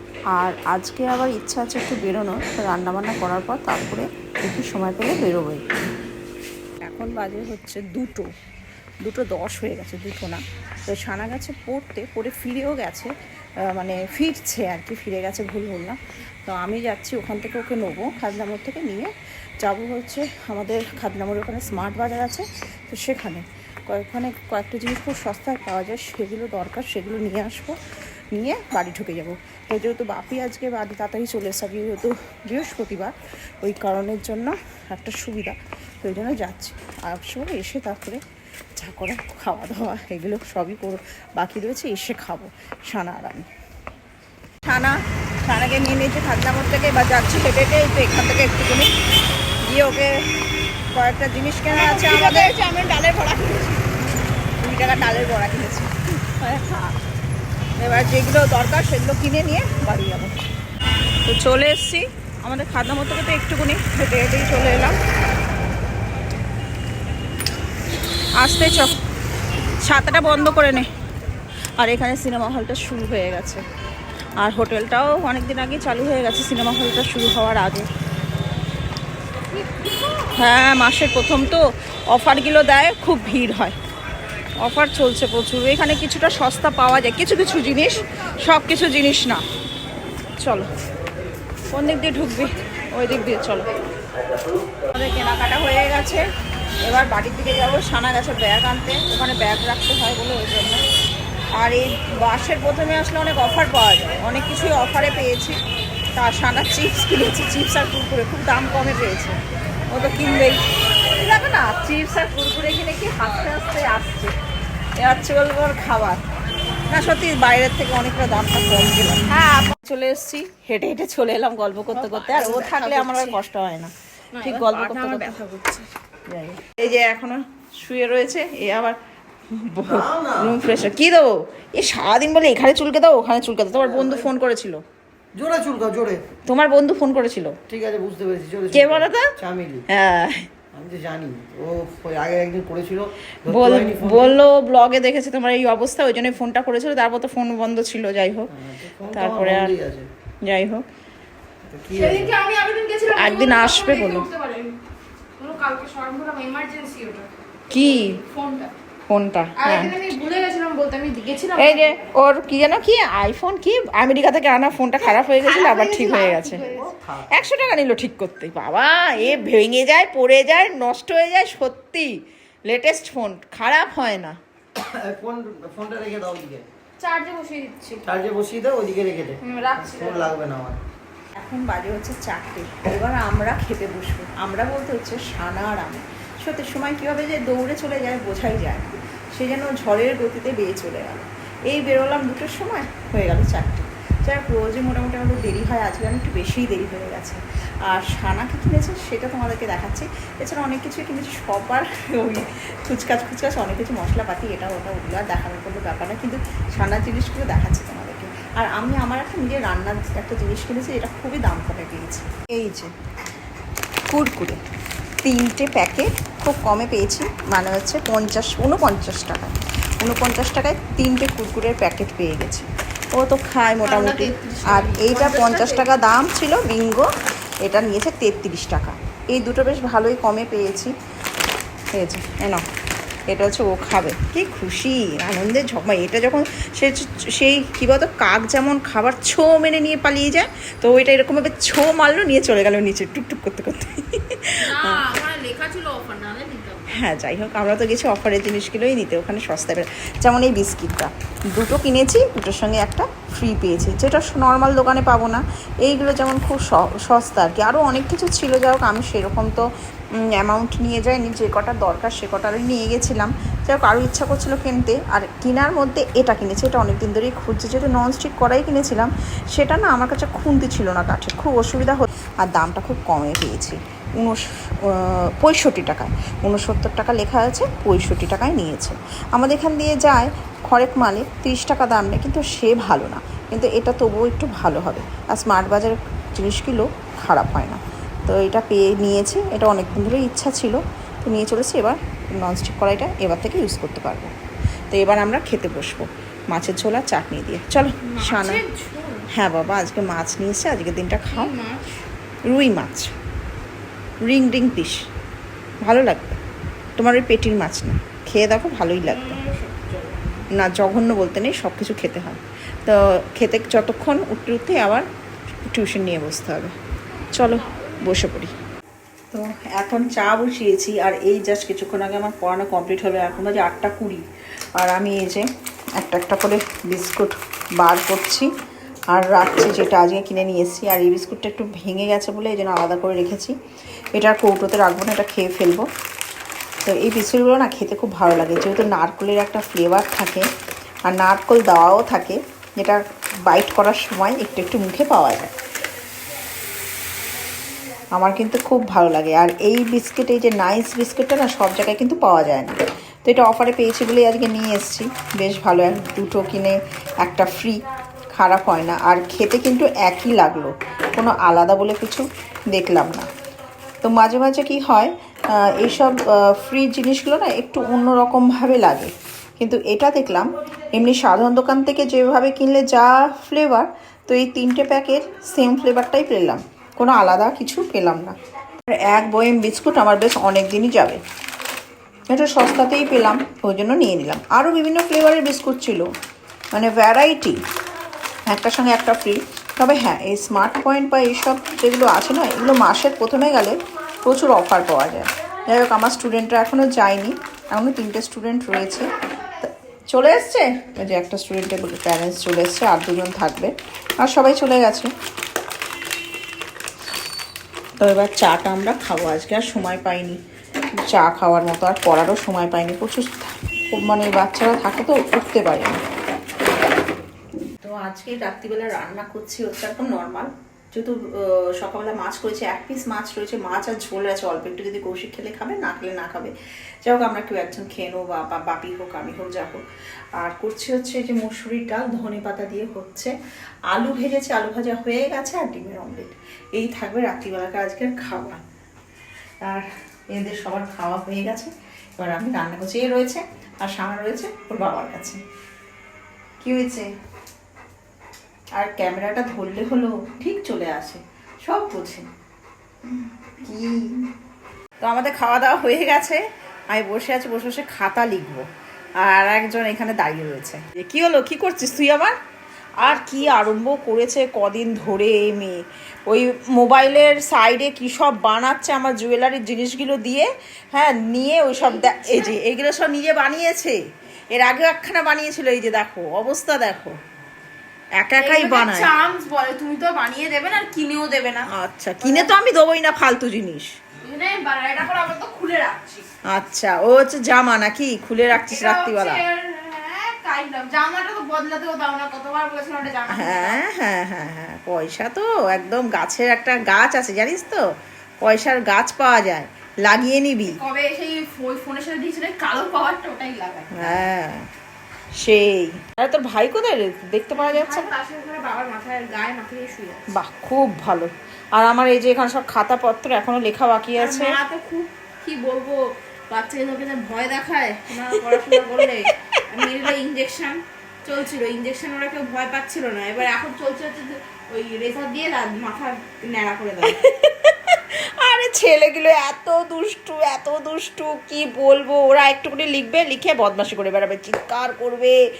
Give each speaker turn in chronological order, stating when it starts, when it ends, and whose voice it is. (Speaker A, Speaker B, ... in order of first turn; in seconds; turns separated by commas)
Speaker A: 0.3-5.6, Speaker A: 6.8-8.3, Speaker A: 9.0-13.1, Speaker A: 13.7-19.1, Speaker A: 19.6-27.8, Speaker A: 28.3-38.2, Speaker A: 38.8-43.5, Speaker A: 44.6-48.9, Speaker A: 49.6-50.2, Speaker A: 50.9-52.5, Speaker B: 51.7-53.9, Speaker A: 54.6-56.9, Speaker A: 57.8-60.3, Speaker A: 61.2-65.0, Speaker A: 68.4-69.0, Speaker A: 69.8-70.9, Speaker A: 71.8-73.6, Speaker A: 74.4-77.9, Speaker B: 79.5-80.3, Speaker A: 80.3-83.8, Speaker A: 84.6-89.4, Speaker A: 90.4-90.7, Speaker A: 91.7-93.7, Speaker A: 94.9-96.2, Speaker A: 96.8-100.8, Speaker A: 101.6-105.6, Speaker A: 106.2-109.4, Speaker A: 109.9-114.3, Speaker A: 115.0-116.2, Speaker A: 116.9-125.3, Speaker B: 121.9-123.4, Speaker B: 124.3-125.9, Speaker A: 126.3-129.0, Speaker A: 129.5-134.8, Speaker C: 129.8-130.6, Speaker C: 133.7-134.3, Speaker C: 135.3-136.2, Speaker A: 136.5-137.6, Speaker C: 137.7-139.8, Speaker A: 138.7-139.3, Speaker A: 139.9-140.5, Speaker C: 140.7-144.4, Speaker A: 143.4-148.5, Speaker C: 148.5-150.1, Speaker A: 149.1-149.7, Speaker A: 150.4-150.8, Speaker C: 151.7-152.3, Speaker B: 151.9-154.8, Speaker A: 153.1-154.3, Speaker B: 155.4-158.7, Speaker A: 157.7-158.2, Speaker A: 159.1-160.0, Speaker B: 159.6-162.2, Speaker A: 161.6-166.6, Speaker B: 165.0-166.9, Speaker C: 166.6-167.8, Speaker A: 167.3-174.4, Speaker C: 174.8-176.7, Speaker B: 177.0-178.1, Speaker C: 178.0-180.8, Speaker B: 179.4-180.4, Speaker A: 181.4-212.9, Speaker A: 214.1-214.6, Speaker A: 215.2-227.1, Speaker B: 223.8-225.9, Speaker A: 227.6-230.9, Speaker A: 231.9-232.7, Speaker A: 233.3-245.0, Speaker B: 244.6-246.9, Speaker A: 246.9-259.7, Speaker A: 260.2-294.3, Speaker A: 294.9-298.6, Speaker B: 298.0-299.3, Speaker A: 299.3-301.5, Speaker B: 301.3-302.0, Speaker A: 302.5-303.1, Speaker A: 304.2-305.0, Speaker A: 305.8-306.4, Speaker A: 307.0-309.4, Speaker B: 309.0-310.5, Speaker A: 310.5-315.1, Speaker A: 315.7-316.7, Speaker A: 317.3-318.5, Speaker B: 317.4-318.0, Speaker A: 319.3-324.2, Speaker A: 324.8-325.5, Speaker A: 326.0-328.5, Speaker A: 329.1-333.5, Speaker A: 334.1-335.9, Speaker A: 336.8-340.5, Speaker A: 341.1-345.5, Speaker A: 348.1-357.8, Speaker A: 358.3-363.3, Speaker A: 364.0-378.4, Speaker A: 378.9-381.2, Speaker A: 382.3-386.1, Speaker A: 386.7-387.6, Speaker A: 388.5-405.1, Speaker A: 408.0-410.4, Speaker A: 411.1-416.0, Speaker A: 417.8-426.5, Speaker A: 427.0-429.8, Speaker A: 430.4-433.3, Speaker A: 433.9-438.6, Speaker A: 439.6-445.4, Speaker A: 446.6-447.1, Speaker A: 448.7-452.3, Speaker A: 453.1-454.3, Speaker A: 455.0-458.6, Speaker A: 459.2-462.4, Speaker A: 463.0-474.0, Speaker B: 463.1-463.4, Speaker B: 471.9-472.5, Speaker A: 474.5-477.2, Speaker A: 478.2-479.1, Speaker B: 478.4-481.7, Speaker A: 481.7-483.9, Speaker B: 482.2-482.5, Speaker B: 484.2-486.2, Speaker A: 486.5-489.4, Speaker B: 488.5-493.8, Speaker A: 493.3-497.8, Speaker A: 498.4-500.8, Speaker B: 500.6-504.3, Speaker A: 503.9-504.6, Speaker A: 505.4-508.1, Speaker B: 507.5-510.3, Speaker A: 510.3-514.6, Speaker B: 514.2-516.0, Speaker B: 516.5-527.4, Speaker A: 518.1-519.2, Speaker A: 527.0-535.4